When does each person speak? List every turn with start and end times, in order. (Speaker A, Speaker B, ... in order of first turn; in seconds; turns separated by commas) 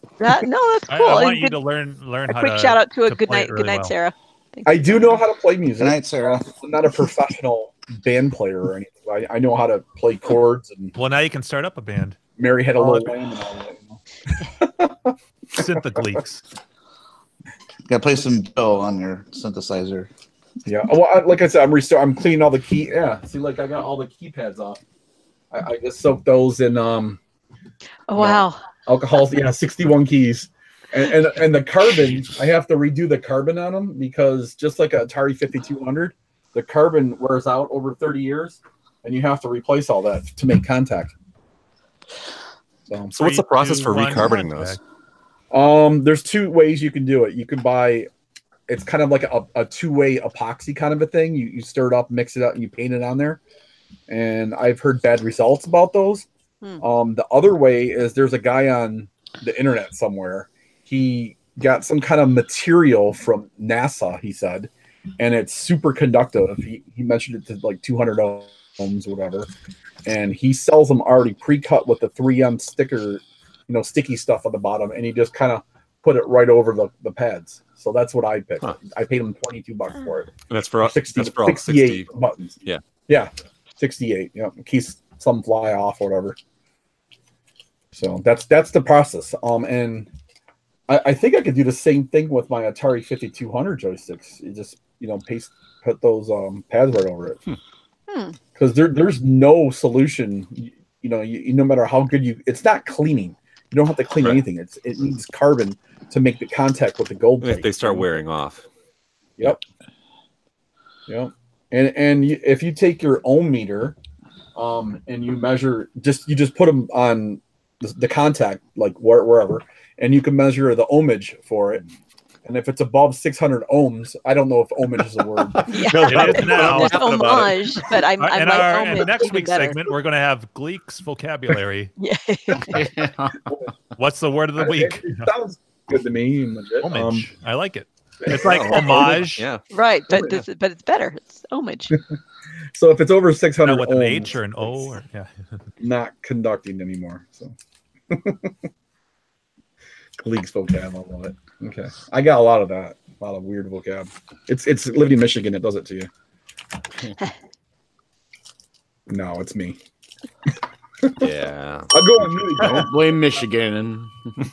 Speaker A: 0.2-1.6, Speaker B: 0.9-3.9, Speaker A: 2.3-5.2, Speaker C: 4.6-10.9, Speaker D: 5.8-6.5, Speaker B: 10.9-12.2, Speaker C: 12.4-15.7, Speaker B: 12.8-13.1, Speaker B: 15.5-16.4, Speaker D: 17.9-20.1, Speaker C: 20.6-24.8, Speaker C: 25.5-27.2, Speaker A: 28.1-28.6, Speaker C: 28.1-41.1, Speaker C: 42.9-43.1, Speaker E: 43.1-44.8, Speaker B: 43.2-44.8, Speaker C: 45.5-48.1, Speaker C: 48.7-53.4, Speaker C: 54.1-56.2, Speaker C: 56.8-69.5, Speaker C: 70.0-86.4, Speaker E: 80.5-82.1, Speaker C: 87.9-90.1, Speaker C: 90.9-97.4, Speaker A: 98.1-98.4, Speaker C: 98.5-108.1, Speaker E: 107.4-108.7, Speaker C: 111.1-114.0, Speaker C: 114.5-121.8, Speaker C: 122.4-127.5, Speaker A: 125.7-129.8, Speaker B: 125.9-131.9, Speaker A: 132.0-132.9, Speaker F: 133.0-133.3, Speaker C: 133.4-133.7, Speaker B: 133.9-135.3, Speaker C: 134.6-137.3, Speaker B: 136.8-139.4, Speaker C: 138.2-139.2, Speaker E: 138.3-139.6, Speaker A: 139.7-142.0, Speaker C: 142.7-144.9, Speaker B: 143.6-145.3, Speaker C: 145.8-147.5, Speaker C: 148.1-148.5, Speaker C: 150.2-156.1, Speaker C: 159.1-159.8, Speaker C: 161.0-161.3, Speaker E: 161.2-162.8, Speaker C: 161.9-163.0, Speaker F: 162.6-164.3